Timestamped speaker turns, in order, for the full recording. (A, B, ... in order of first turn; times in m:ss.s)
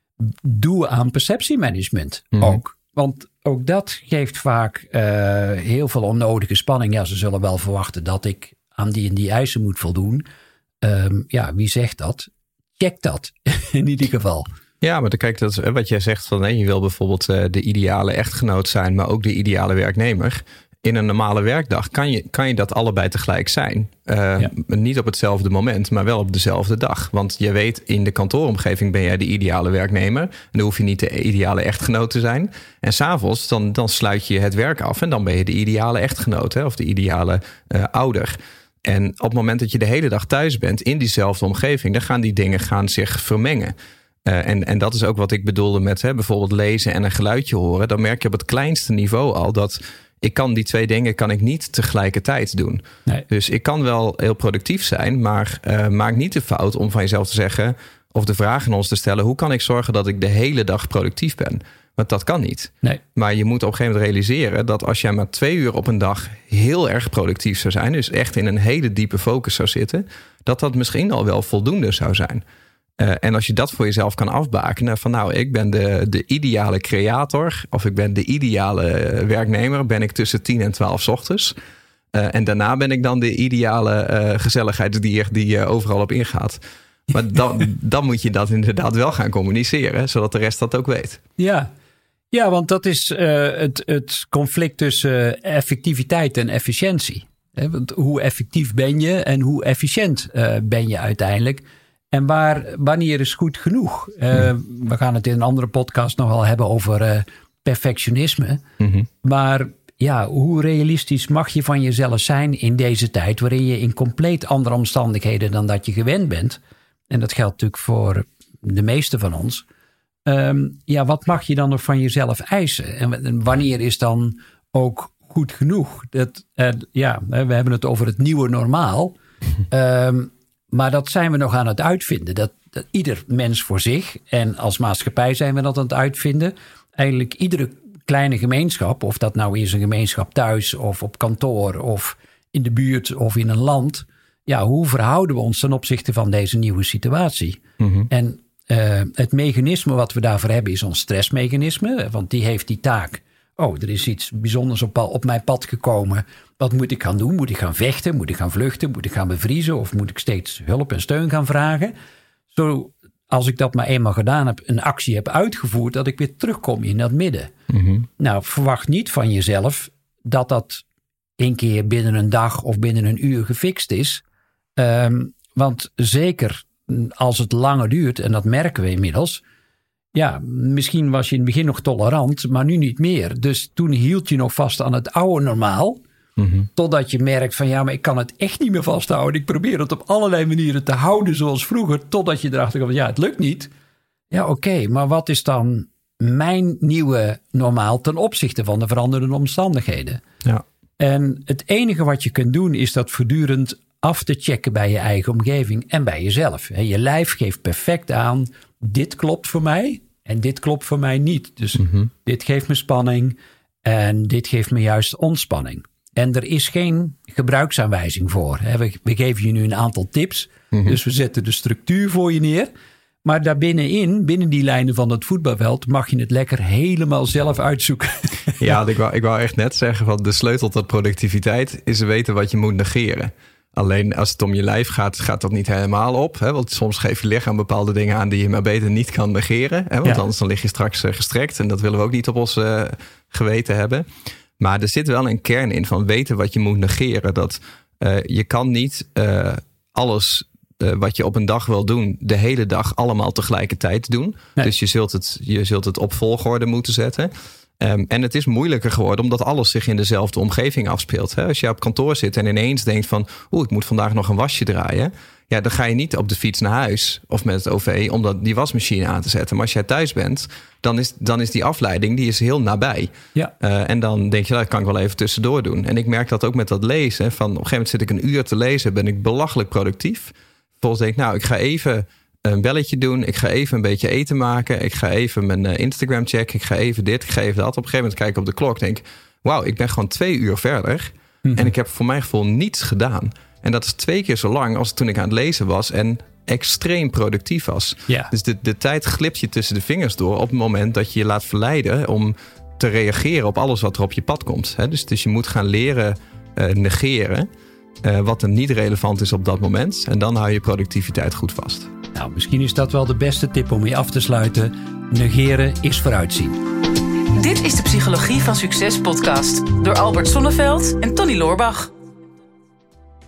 0:00.2-0:10.3 A
0:02.4-0:02.6 B
0:10.8-0:14.5 A
0:14.8-0:43.7 B
0:44.3-1:12.4 B
1:13.0-1:21.6 B
1:22.1-1:31.2 B
1:31.4-1:31.7 A
1:32.3-1:48.6 A
1:48.8-1:49.1 B
1:49.2-1:59.6 A
2:00.3-2:09.2 A
2:09.7-2:41.9 A
2:27.8-2:28.1 B
2:42.5-2:47.5 A
2:47.7-2:48.1 B
2:48.2-2:50.8 A
2:51.4-2:54.2 A
2:54.8-2:59.4 A
3:00.1-3:06.0 A
3:06.4-3:06.7 B
3:06.8-3:13.7 A
3:14.3-3:20.2 A
3:21.0-3:42.7 A
3:43.2-3:48.6 A
3:48.6-4:04.1 B
4:04.6-5:07.5 B
4:51.4-4:51.7 A
5:08.0-5:11.9 B
5:12.1-5:16.6 A
5:17.4-5:21.9 C